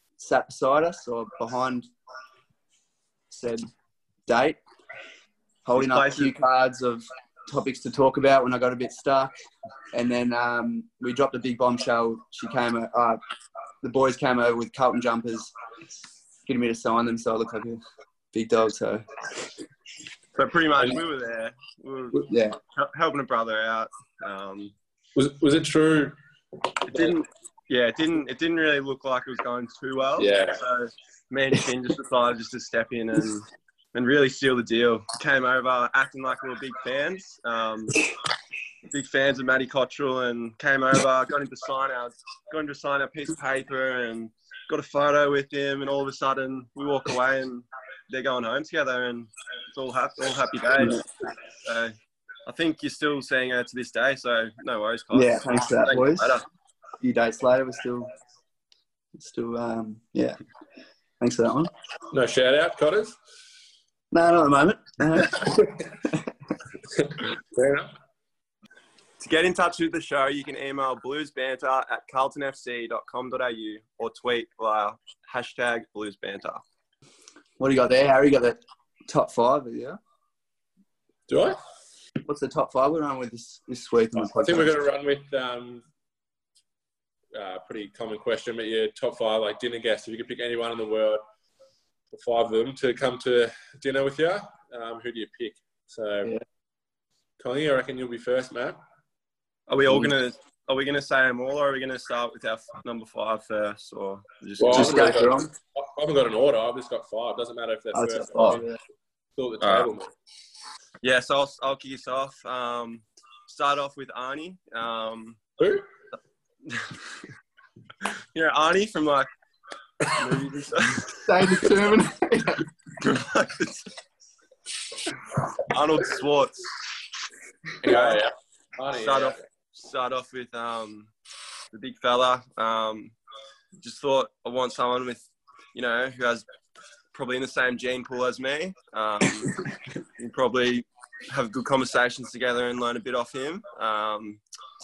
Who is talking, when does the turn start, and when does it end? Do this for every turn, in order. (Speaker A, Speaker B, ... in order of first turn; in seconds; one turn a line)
Speaker A: 0.2-1.9
Speaker A: 3.3-3.7
Speaker A: 4.3-4.6
Speaker A: 5.7-9.3
Speaker B: 5.8-6.3
Speaker A: 9.9-13.2
Speaker A: 13.8-15.5
Speaker A: 16.5-17.8
Speaker A: 18.3-19.1
Speaker B: 20.3-24.7
Speaker A: 22.2-22.6
Speaker C: 25.1-26.2
Speaker B: 26.9-38.0
Speaker C: 26.9-27.2
Speaker C: 30.2-30.6
Speaker B: 38.9-51.1
Speaker A: 50.8-51.0
Speaker B: 51.6-52.0
Speaker B: 52.5-56.5
Speaker A: 55.1-56.4
Speaker A: 57.0-58.1
Speaker A: 59.2-60.4
Speaker A: 61.2-61.7
Speaker C: 62.1-63.2
Speaker A: 64.1-66.2
Speaker C: 65.3-65.7
Speaker C: 67.0-67.9
Speaker B: 69.2-76.6
Speaker A: 77.6-80.0
Speaker C: 81.3-81.6
Speaker A: 82.3-84.7
Speaker C: 84.2-85.8
Speaker C: 87.3-91.2
Speaker C: 92.1-96.3
Speaker C: 97.4-98.8
Speaker B: 99.7-105.2
Speaker C: 104.6-108.7
Speaker A: 104.7-105.5
Speaker A: 107.9-108.8
Speaker C: 109.4-110.1
Speaker B: 109.6-109.9
Speaker B: 111.0-115.4
Speaker C: 115.6-115.9
Speaker B: 116.7-117.0
Speaker B: 118.0-119.3
Speaker B: 120.2-121.2
Speaker A: 121.1-122.7
Speaker B: 123.0-123.9
Speaker B: 125.7-126.7
Speaker C: 127.8-129.4
Speaker B: 127.8-128.2
Speaker B: 128.9-131.1
Speaker B: 131.7-133.2
Speaker B: 133.8-136.4
Speaker B: 137.1-139.6
Speaker B: 140.2-144.4